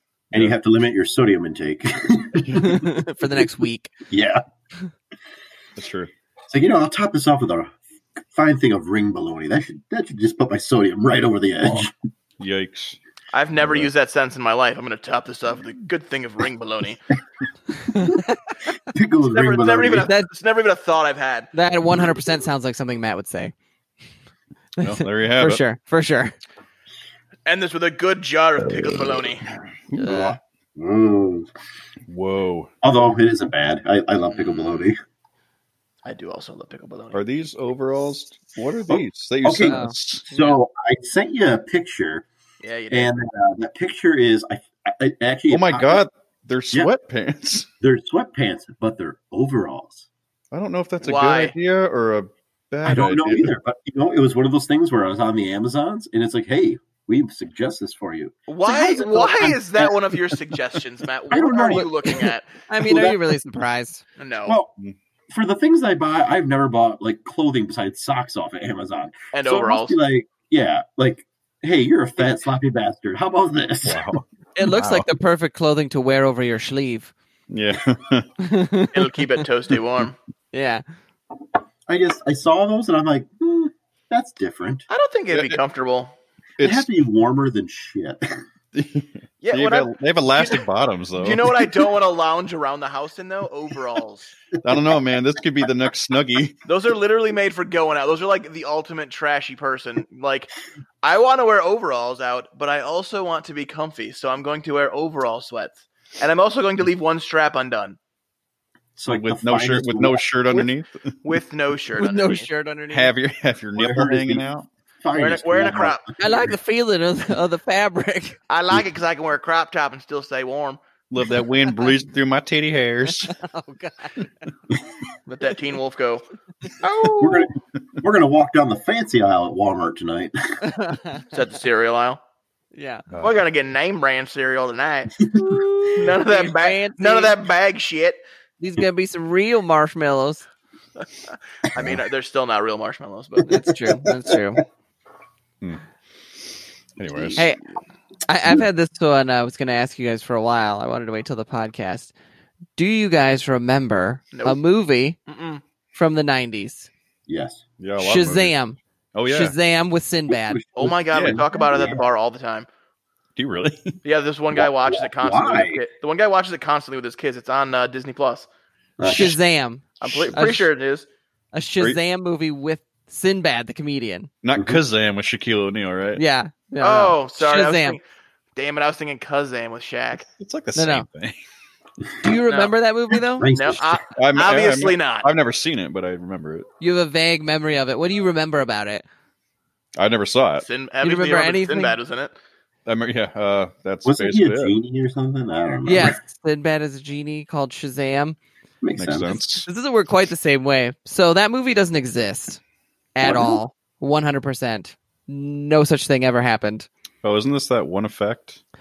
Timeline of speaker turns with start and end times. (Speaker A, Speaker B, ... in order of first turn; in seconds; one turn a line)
Speaker A: 0.3-3.0
Speaker B: 2.6-3.9
Speaker A: 4.1-4.4
Speaker C: 5.8-6.1
Speaker A: 6.5-7.7
Speaker A: 8.3-11.9
Speaker C: 12.4-13.0
Speaker D: 13.3-17.0
Speaker C: 13.5-13.9
Speaker B: 17.9-18.5
Speaker A: 18.9-20.1
Speaker D: 19.3-21.5
Speaker B: 21.5-23.5
Speaker B: 24.8-26.4
Speaker C: 24.8-25.6
Speaker D: 27.4-29.4
Speaker C: 28.6-30.4
Speaker B: 30.0-30.4
Speaker A: 30.1-31.5
Speaker C: 32.1-32.7
Speaker A: 32.8-35.0
Speaker D: 36.0-37.2
Speaker C: 37.1-40.2
Speaker A: 38.9-42.2
Speaker B: 39.6-40.6
Speaker D: 42.6-43.2
Speaker A: 42.9-46.0
Speaker C: 45.5-47.7
Speaker A: 47.8-50.1
Speaker C: 50.5-53.5
Speaker D: 51.0-51.5
Speaker A: 52.9-60.6
Speaker D: 58.5-62.6
Speaker A: 61.3-63.3
Speaker B: 62.7-64.0
Speaker D: 64.2-64.6
Speaker A: 64.4-64.7
Speaker A: 65.3-74.1
Speaker D: 69.3-70.0
Speaker C: 73.8-75.1
Speaker B: 74.6-77.1
Speaker C: 77.5-78.3
Speaker B: 78.4-79.4
Speaker D: 78.9-80.1
Speaker B: 80.5-80.8
Speaker A: 81.9-84.9
Speaker D: 84.9-86.1
Speaker C: 85.3-85.6
Speaker C: 86.6-86.9
Speaker A: 86.6-88.4
Speaker C: 88.7-91.6
Speaker D: 89.4-90.6
Speaker D: 91.2-94.3
Speaker C: 94.6-96.6
Speaker A: 94.7-94.9
Speaker D: 96.7-100.5
Speaker D: 101.0-108.0
Speaker A: 109.0-110.2
Speaker C: 109.1-111.1
Speaker D: 111.2-112.5
Speaker B: 112.0-113.1
Speaker C: 112.9-114.7
Speaker A: 113.8-114.5
Speaker A: 115.0-116.5
Speaker D: 115.1-116.1
Speaker B: 116.2-118.4
Speaker D: 118.5-120.8
Speaker C: 121.1-123.4
Speaker B: 123.3-124.2
Speaker D: 125.3-126.2
Speaker B: 126.7-127.5
Speaker A: 127.2-130.6
Speaker B: 130.6-131.2
Speaker D: 131.3-132.2
Speaker B: 132.7-133.1
Speaker C: 133.1-133.4
Speaker D: 133.2-135.2
Speaker B: 135.3-137.3
Speaker D: 135.9-138.2
Speaker B: 138.6-140.4
Speaker D: 141.7-143.6
Speaker B: 143.4-144.6
Speaker A: 143.8-144.3
Speaker C: 147.0-147.5
Speaker A: 147.1-147.4
Speaker B: 148.3-152.1
Speaker B: 152.8-155.2
Speaker D: 154.3-154.6
Speaker D: 155.3-155.6
Speaker B: 155.9-156.9
Speaker A: 157.3-157.6
Speaker C: 157.8-158.5
Speaker B: 158.0-160.6
Speaker C: 159.1-159.5
Speaker A: 160.3-162.1
Speaker D: 160.8-162.7
Speaker C: 161.1-161.4
Speaker C: 163.4-164.0
Speaker D: 164.0-168.5
Speaker A: 164.5-165.8
Speaker A: 169.0-169.4
Speaker B: 169.0-170.7
Speaker D: 170.0-171.1
Speaker C: 170.0-170.6
Speaker B: 171.5-174.3
Speaker C: 174.4-176.2
Speaker B: 176.2-178.0
Speaker D: 176.8-178.0
Speaker D: 178.6-180.3
Speaker C: 180.4-181.4
Speaker B: 180.8-181.1
Speaker B: 182.2-183.5
Speaker D: 182.5-182.7
Speaker A: 183.4-184.0
Speaker D: 183.5-185.3
Speaker C: 184.2-186.7
Speaker B: 186.8-189.0
Speaker C: 190.0-190.7
Speaker D: 190.6-192.3
Speaker B: 191.0-192.0
Speaker C: 192.9-194.8
Speaker A: 194.0-196.2
Speaker B: 195.9-198.4
Speaker A: 198.8-199.4
Speaker C: 199.0-199.7
Speaker B: 199.6-202.6
Speaker B: 203.1-206.9
Speaker A: 203.2-203.6
Speaker C: 207.2-208.6